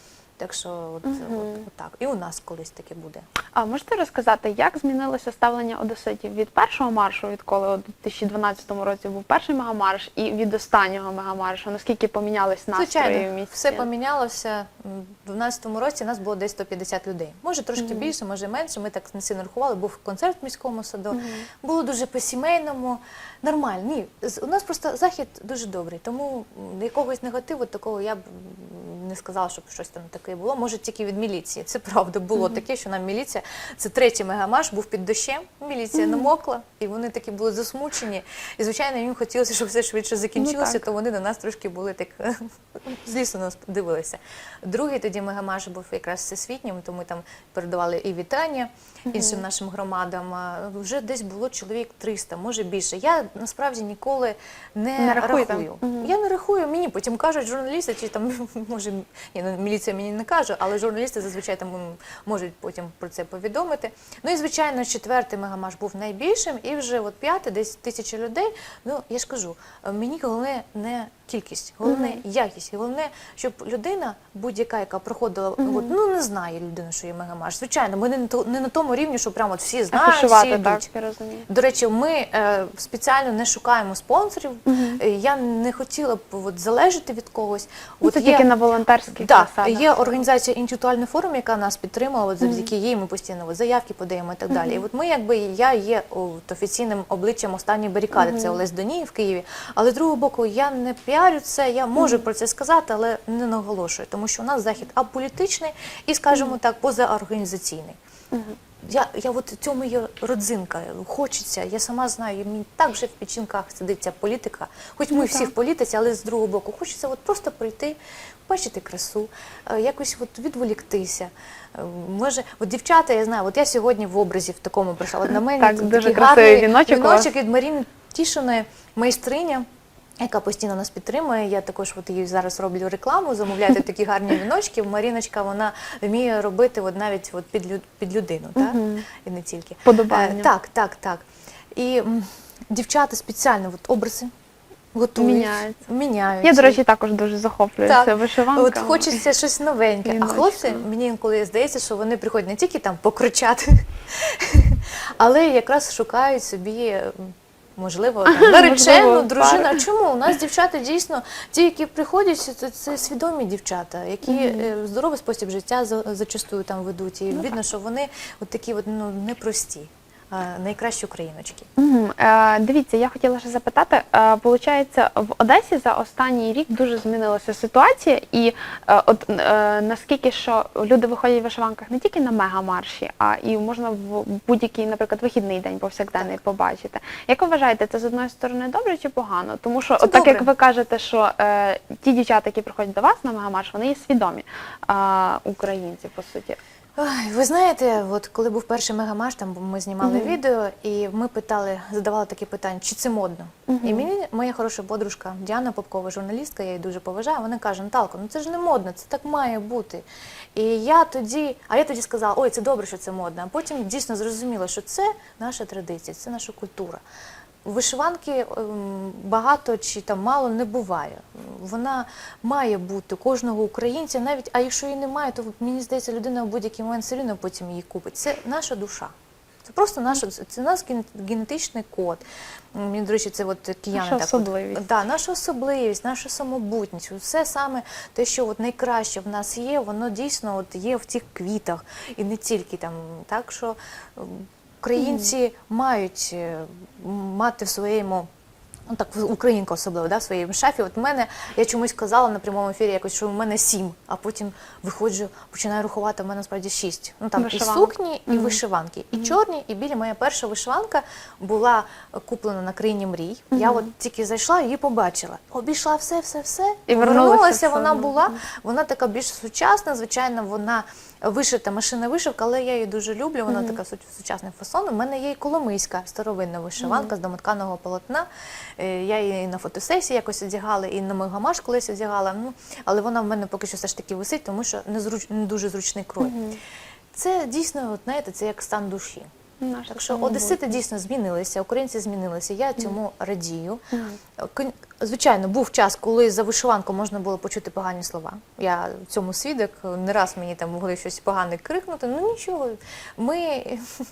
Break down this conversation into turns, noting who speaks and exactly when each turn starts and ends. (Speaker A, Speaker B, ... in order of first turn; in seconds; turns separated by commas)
Speaker A: 0.4-3.2, Speaker B: 1.1-1.6, Speaker B: 3.5-13.9, Speaker A: 12.7-80.9, Speaker B: 17.8-18.1, Speaker B: 21.1-21.5, Speaker B: 35.9-36.3, Speaker B: 40.4-40.8, Speaker B: 49.1-49.4, Speaker B: 55.0-56.1, Speaker B: 71.8-72.2, Speaker B: 75.6-75.9, Speaker B: 79.9-81.5, Speaker A: 81.5-88.5, Speaker B: 84.7-85.0, Speaker B: 88.0-90.1, Speaker A: 89.2-108.0, Speaker B: 92.4-92.7, Speaker B: 94.5-94.8, Speaker B: 98.1-98.6, Speaker A: 108.9-129.6, Speaker B: 115.1-115.5, Speaker B: 125.3-127.3, Speaker A: 130.2-141.2, Speaker B: 138.6-139.1, Speaker B: 139.8-140.5, Speaker A: 141.8-144.3, Speaker A: 144.9-146.8, Speaker B: 145.2-145.8, Speaker B: 146.4-149.3, Speaker A: 147.8-171.7, Speaker B: 150.0-150.9, Speaker B: 158.3-159.8, Speaker B: 164.2-164.7, Speaker B: 171.8-196.6, Speaker A: 190.0-190.5, Speaker A: 197.0-217.0, Speaker B: 200.0-200.4, Speaker B: 203.7-204.1, Speaker A: 217.6-229.1, Speaker A: 229.6-232.2, Speaker A: 232.8-248.3, Speaker B: 233.9-234.8, Speaker B: 244.9-245.3, Speaker A: 248.9-278.3, Speaker B: 257.4-258.6, Speaker B: 263.5-263.9, Speaker B: 266.9-268.3, Speaker B: 273.5-273.8, Speaker B: 276.8-277.1, Speaker A: 278.8-286.4, Speaker B: 286.2-286.6, Speaker A: 287.1-289.3, Speaker B: 289.6-290.8, Speaker A: 289.9-293.8, Speaker B: 293.9-294.2, Speaker A: 294.4-303.9